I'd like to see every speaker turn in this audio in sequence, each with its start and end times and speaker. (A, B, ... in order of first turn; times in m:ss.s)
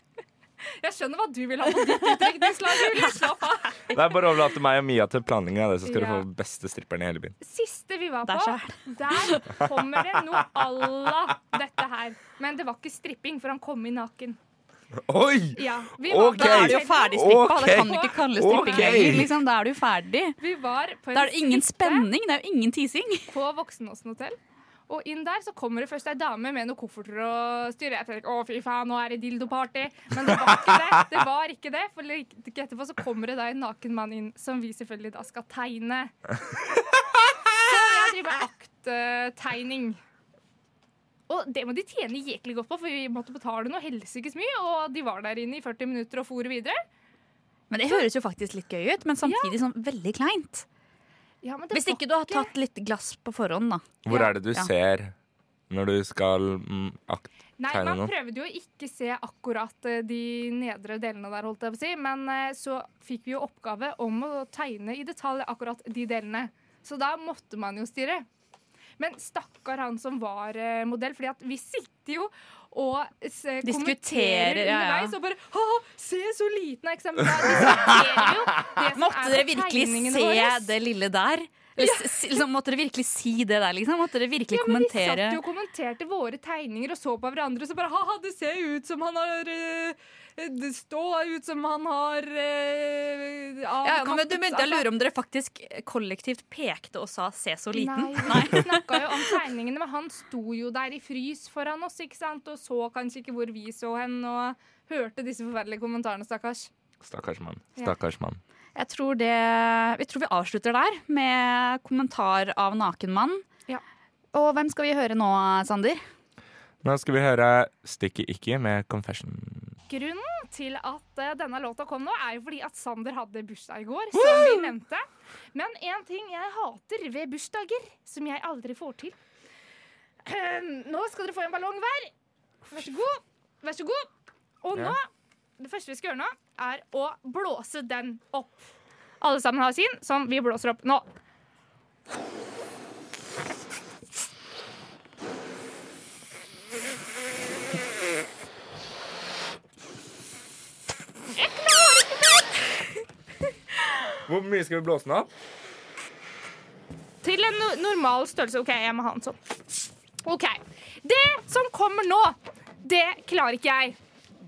0:00.8-0:03.8 A
0:03.9-0:07.4 B
0:05.8-0:06.2 A
0:07.4-0:14.4 A
0:08.2-0:09.4 C
0:15.1-0:19.3 B
0:15.6-0:19.2 A
0:16.4-0:20.3 C
0:20.4-0:22.1 A
0:21.1-0:23.3 C
0:23.3-0:24.4 A
0:24.9-0:36.1 A
0:37.5-0:40.0 A
0:41.3-0:46.8 A
0:47.7-0:50.6 C
0:49.2-0:49.6 A
0:51.4-0:52.5 A
0:51.7-0:54.7 C
0:54.0-0:55.1 B
0:55.7-0:58.1 B
0:57.6-1:08.2 A
1:09.0-1:20.7 A
1:13.6-1:15.1 C
1:18.9-1:25.4 C
1:21.8-1:22.2 A
1:24.5-1:34.8 A
1:33.8-1:39.2 C
1:37.7-1:46.7 A
1:47.0-1:48.4 B
1:48.8-1:53.4 C
1:54.3-1:56.0 C
1:56.8-1:59.7 B
1:59.9-2:09.2 A
2:04.1-2:04.7 B
2:10.2-2:12.1 A
2:12.6-2:14.1 A
2:14.6-2:15.1 A
2:15.6-2:18.7 A
2:19.2-2:21.0 A
2:31.3-2:32.8 A
2:34.2-2:35.3 B
2:37.2-2:39.4 A
2:40.2-2:44.0 A